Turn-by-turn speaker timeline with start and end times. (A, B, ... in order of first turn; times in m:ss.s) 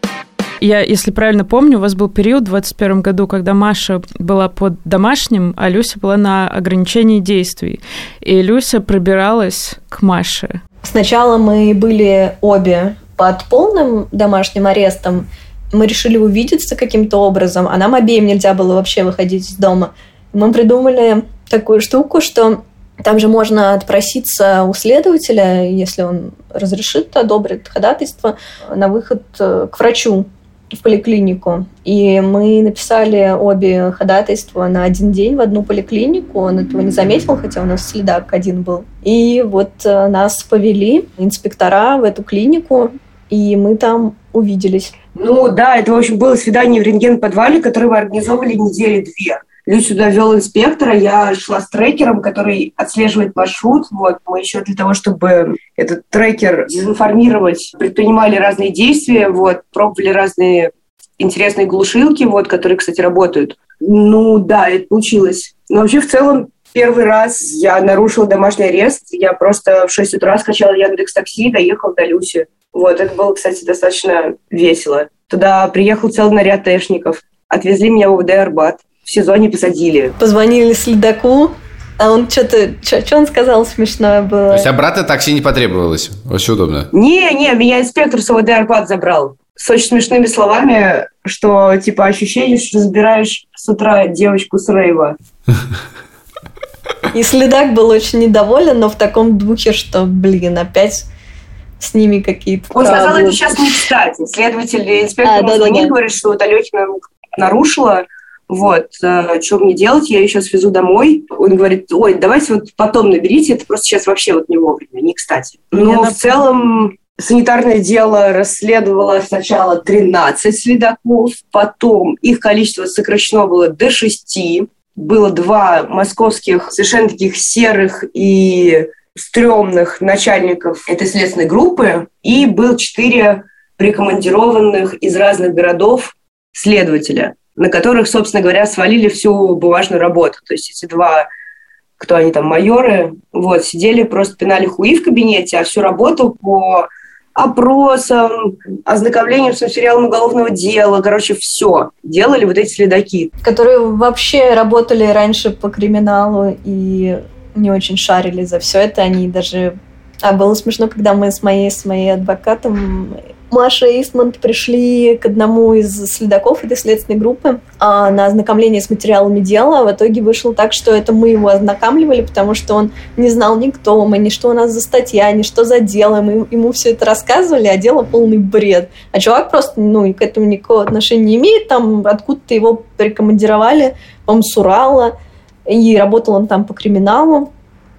0:00.6-0:10.6 A
0:10.8-0:44.9 B
0:45.2-1:20.2 C
1:20.2-1:24.7 B
1:24.5-1:26.9 D
1:26.9-1:35.2 C
1:37.1-1:41.1 B
1:41.8-1:43.8 B
1:42.7-2:21.3 C
1:45.2-1:45.9 B
2:22.0-2:33.3 C
2:33.4-3:05.2 B
3:05.7-3:07.5 B